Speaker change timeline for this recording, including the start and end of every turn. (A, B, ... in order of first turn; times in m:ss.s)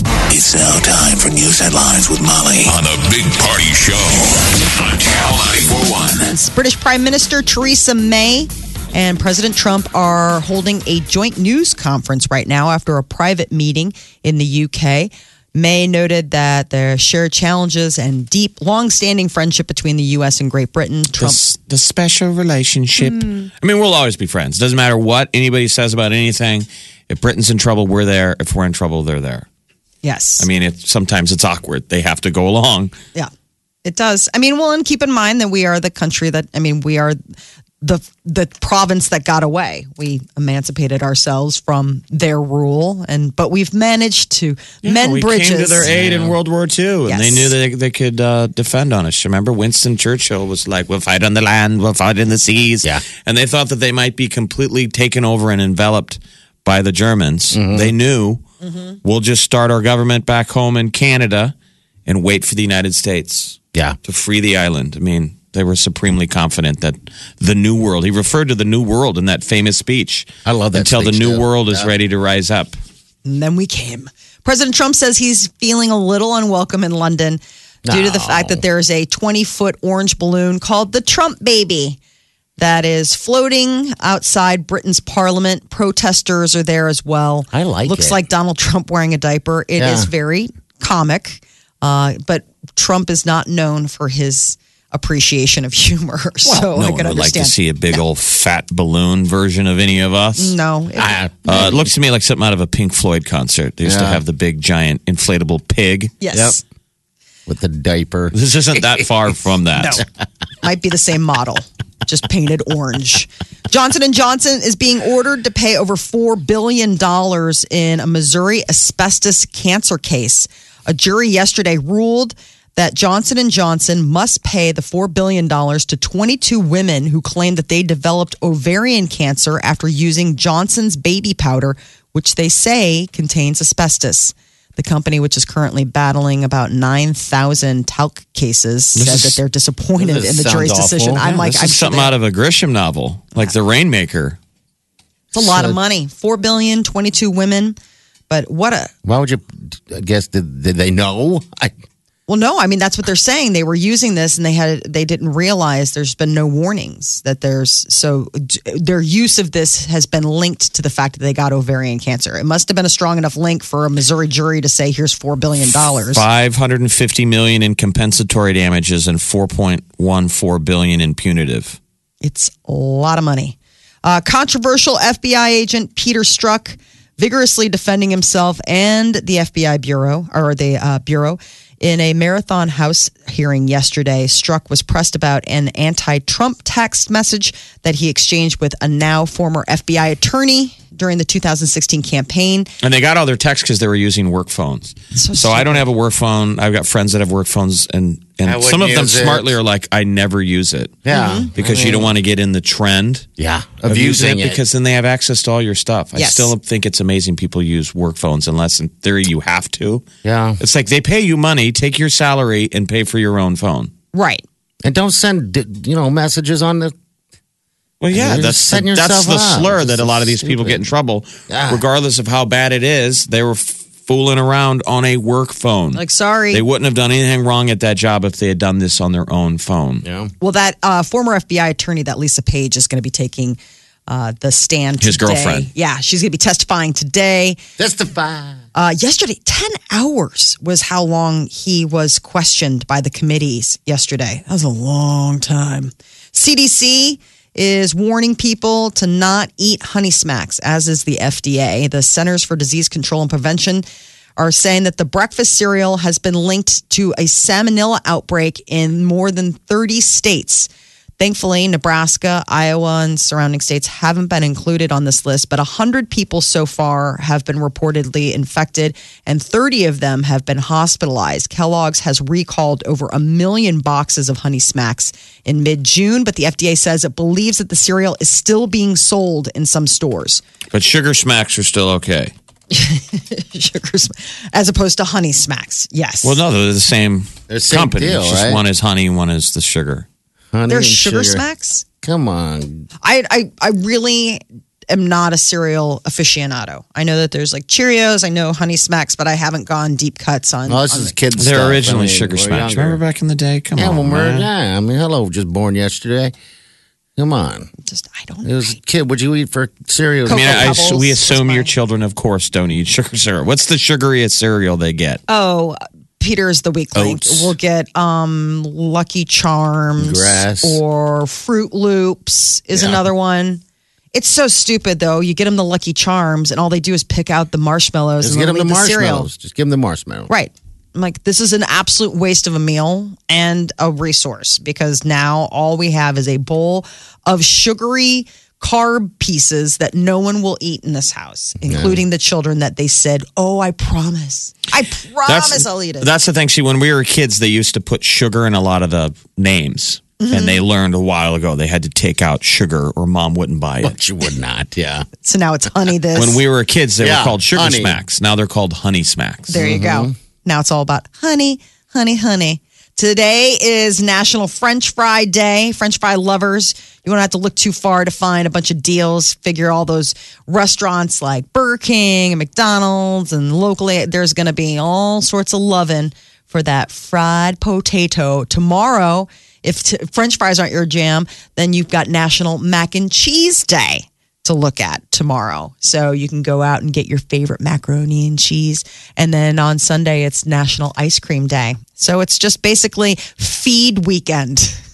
0:00.3-0:06.3 A
0:06.2-0:21.4 B
0:21.2-0:29.4 C
0:23.0-0:23.5 B
0:30.0-0:30.5 B
0:30.4-0:32.9 C
0:33.8-0:37.2 B
0:37.8-0:45.9 B
0:44.8-0:58.4 C
0:45.9-0:46.3 D
0:47.1-0:47.5 B
0:57.5-0:57.9 D
0:59.0-1:01.5 C
1:02.1-1:12.8 C
1:10.4-1:11.9 D
1:13.2-1:22.0 B
1:17.8-1:18.6 D
1:22.6-1:38.0 B
1:27.5-1:28.2 D
1:29.8-1:30.1 D
1:36.4-1:40.5 C
1:40.4-1:41.6 B
1:41.0-1:41.9 D
1:41.4-1:46.1 C
1:43.8-1:44.2 D
1:46.2-1:46.6 B
1:46.3-1:46.6 D
1:47.4-1:49.1 D
1:48.3-1:50.0 C
1:49.8-1:50.0 B
1:50.6-2:22.1 B
2:19.0-2:19.4 C
2:20.0-2:21.7 D
2:21.4-2:24.4 C
2:25.3-2:25.8 D
2:25.3-2:27.8 B
2:28.3-2:28.9 B
2:29.0-2:31.7 D
2:32.3-2:46.2 B
2:46.1-2:51.8 C
2:52.2-3:12.7 B
3:12.8-3:21.0 C
3:15.1-3:15.8 B
3:18.4-3:19.6 D
3:21.0-3:22.1 D
3:21.1-3:21.5 B
3:21.6-3:23.3 C
3:23.4-3:24.6 D
3:23.8-3:30.0 C
3:26.1-3:26.5 B
3:30.2-3:30.6 D
3:30.6-3:33.9 C
3:34.1-3:34.4 B
3:34.8-3:36.9 D
3:38.0-3:50.0 C
3:38.1-3:40.9 D
3:41.5-3:41.8 D
3:45.9-3:46.6 B
3:50.0-3:50.3 D
3:50.4-3:57.6 B
3:55.0-3:55.7 C
3:57.8-3:58.6 D
3:58.7-4:13.8 B
4:14.4-4:40.4 B
4:40.7-4:42.3 C
4:42.7-4:46.4 B
4:46.2-4:50.0 C
4:47.5-4:48.6 D
4:50.5-4:51.4 D
4:50.7-4:51.8 B
4:52.0-4:52.9 D
4:53.0-5:01.1 B
5:00.7-5:03.0 D
5:01.4-5:04.5 C
5:03.8-5:06.3 D
5:07.2-5:07.7 D
5:07.8-5:08.8 B
5:08.4-5:11.0 D
5:10.3-5:11.7 B
5:10.3-5:15.2 C
5:15.3-5:23.6 B
5:17.0-5:17.5 D
5:20.0-5:20.8 D
5:22.7-5:23.0 D
5:24.1-5:29.3 B
5:28.2-5:30.3 D
5:30.3-5:46.1 B
5:41.6-5:42.0 D
5:45.2-5:53.9 C
5:50.2-5:50.6 B
5:53.8-5:55.0 D
5:55.2-5:56.4 B
5:56.1-5:59.6 C
5:57.0-5:58.0 D
5:59.5-6:34.8 B
5:59.5-6:00.1 D